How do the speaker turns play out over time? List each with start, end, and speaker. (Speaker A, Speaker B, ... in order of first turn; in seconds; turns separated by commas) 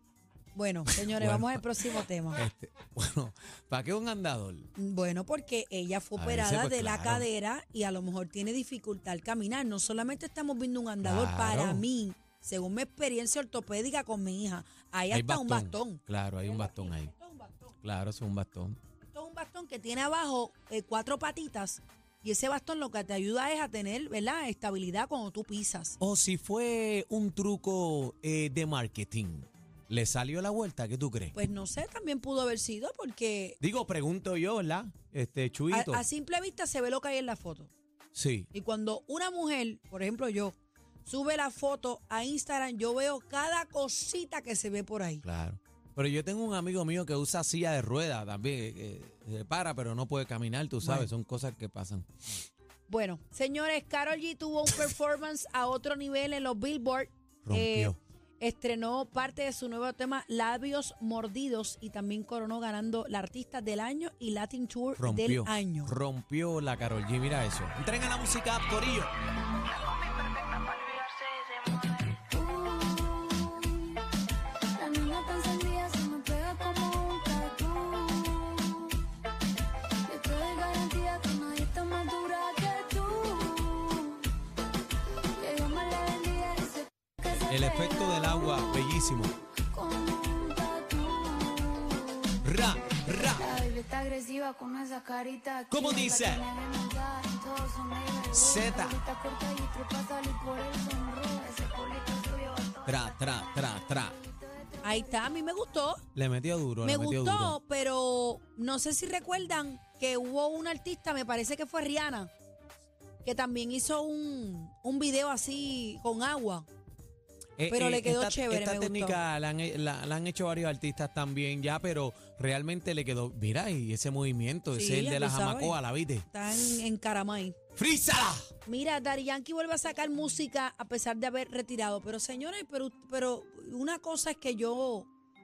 Speaker A: 0.5-2.4, Speaker B: 1.2-1.6, Speaker B: 2.4-4.7, Speaker A: 4.8-17.7, Speaker B: 6.2-7.2, Speaker B: 11.0-11.8, Speaker B: 15.1-17.1, Speaker B: 17.8-18.8, Speaker A: 19.0-26.0, Speaker B: 26.0-31.3, Speaker A: 31.3-33.6, Speaker B: 33.6-36.0, Speaker A: 35.7-37.7, Speaker B: 38.1-38.5, Speaker A: 38.5-45.2, Speaker B: 45.2-52.0, Speaker A: 50.8-51.1, Speaker A: 52.9-65.9, Speaker B: 57.4-58.0, Speaker B: 65.0-69.1, Speaker C: 72.0-74.0, Speaker C: 74.8-79.0, Speaker C: 80.0-84.3, Speaker C: 85.4-88.8, Speaker B: 87.5-89.3, Speaker C: 89.7-92.3, Speaker B: 92.4-93.6, Speaker C: 93.2-105.2, Speaker B: 95.7-96.4, Speaker B: 98.3-99.0, Speaker B: 102.8-104.2, Speaker A: 104.8-106.0, Speaker B: 106.1-107.5, Speaker A: 106.8-112.3, Speaker A: 113.2-116.7, Speaker B: 117.6-126.3, Speaker A: 117.7-119.2, Speaker A: 124.7-127.6, Speaker B: 127.8-128.5, Speaker A: 128.7-135.1